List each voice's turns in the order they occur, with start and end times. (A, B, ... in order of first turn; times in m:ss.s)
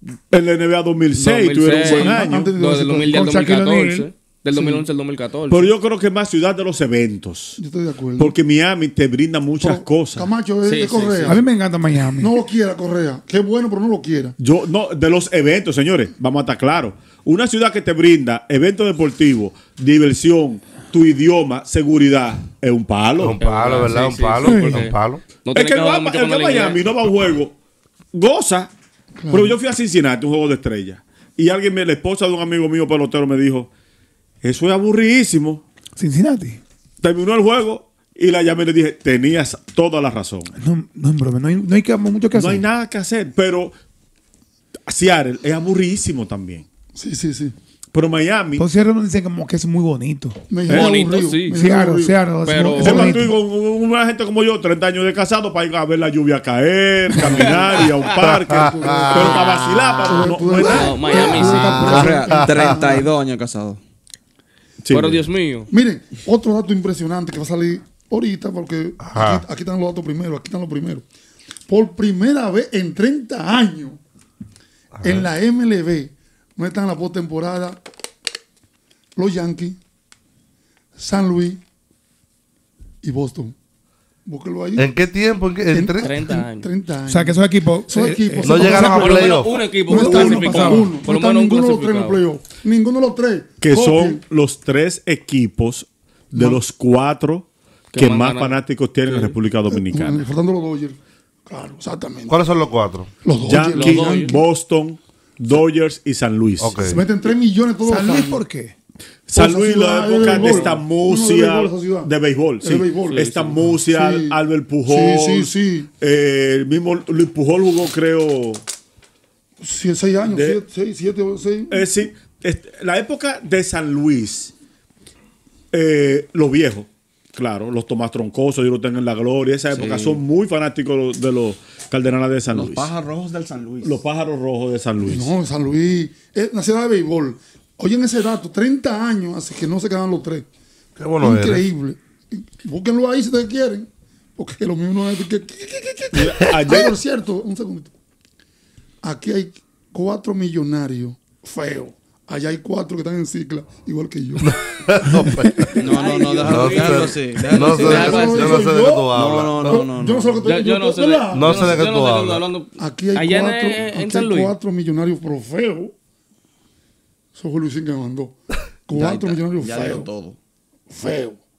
0:00.3-0:02.5 A
0:01.1-0:05.7 B
0:01.8-0:03.3 C
0:03.1-0:04.1 D
0:04.5-0:04.8 C
0:05.5-0:07.6 A
0:07.6-0:08.3 C
0:08.2-0:10.3 A
0:09.6-0:11.4 C
0:10.6-0:11.4 B
0:11.3-0:12.3 D
0:12.2-0:14.4 C
0:14.4-0:23.4 A
0:23.2-0:25.2 E
0:23.4-0:26.8 B
0:24.4-0:24.8 D
0:25.5-0:27.5 A
0:28.1-0:28.7 A
0:29.2-0:29.6 C
0:29.3-0:33.7 A
0:34.4-0:35.6 A
0:36.0-0:36.6 D
0:37.0-0:40.5 A
0:40.6-0:42.6 D
0:42.3-0:43.7 A
0:44.9-0:46.6 A
0:46.9-0:47.5 C
0:47.9-0:48.6 A
0:48.6-0:50.5 D
0:50.5-0:52.2 C
0:50.7-0:51.6 B
0:51.5-0:53.4 D
0:52.4-0:53.2 B
0:52.8-1:01.3 A
0:57.2-0:57.6 C
0:57.3-0:57.9 B
0:58.2-0:59.9 E
0:58.5-1:03.1 C
1:00.6-1:02.0 B
1:01.4-1:02.5 E
1:01.7-1:03.8 F
1:04.8-1:05.2 A
1:04.9-1:05.7 B
1:05.7-1:11.0 C
1:09.0-1:09.4 E
1:11.7-1:14.0 C
1:15.0-1:15.3 E
1:15.0-1:17.8 C
1:19.2-1:19.8 C
1:21.0-1:21.6 C
1:23.0-1:23.5 C
1:24.2-1:24.9 C
1:24.8-1:26.2 E
1:25.7-1:34.2 C
1:26.0-1:26.7 B
1:27.1-1:29.3 D
1:28.4-1:29.6 E
1:28.6-1:32.2 B
1:29.8-1:30.9 D
1:33.6-1:40.3 A
1:37.9-1:39.3 B
1:39.7-1:42.4 C
1:42.3-1:43.1 E
1:43.2-1:44.4 C
1:43.5-1:46.7 A
1:43.7-1:44.4 B
1:46.6-1:47.0 E
1:46.8-1:48.4 C
1:47.8-1:48.7 D
1:49.3-1:58.6 A
1:49.3-1:55.9 C
1:50.4-1:50.7 B
1:53.1-1:53.6 B
1:59.6-2:02.0 C
2:00.3-2:00.6 A
2:01.7-2:04.5 A
2:05.7-2:12.9 A
2:09.7-2:10.2 F
2:12.5-2:14.0 F
2:13.8-2:15.3 A
2:15.0-2:20.4 C
2:21.0-2:21.6 E
2:21.2-2:27.9 C
2:26.1-2:26.9 A
2:29.0-2:34.6 C
2:34.4-2:35.8 E
2:35.8-2:40.5 F
2:35.9-2:38.6 B
2:36.4-2:39.8 E
2:37.7-2:41.8 C
2:40.4-2:44.5 B
2:41.3-2:42.4 E
2:42.8-2:45.9 C
2:47.3-2:48.4 C
2:48.9-2:50.1 C
2:48.9-2:50.4 F
2:50.9-2:51.4 C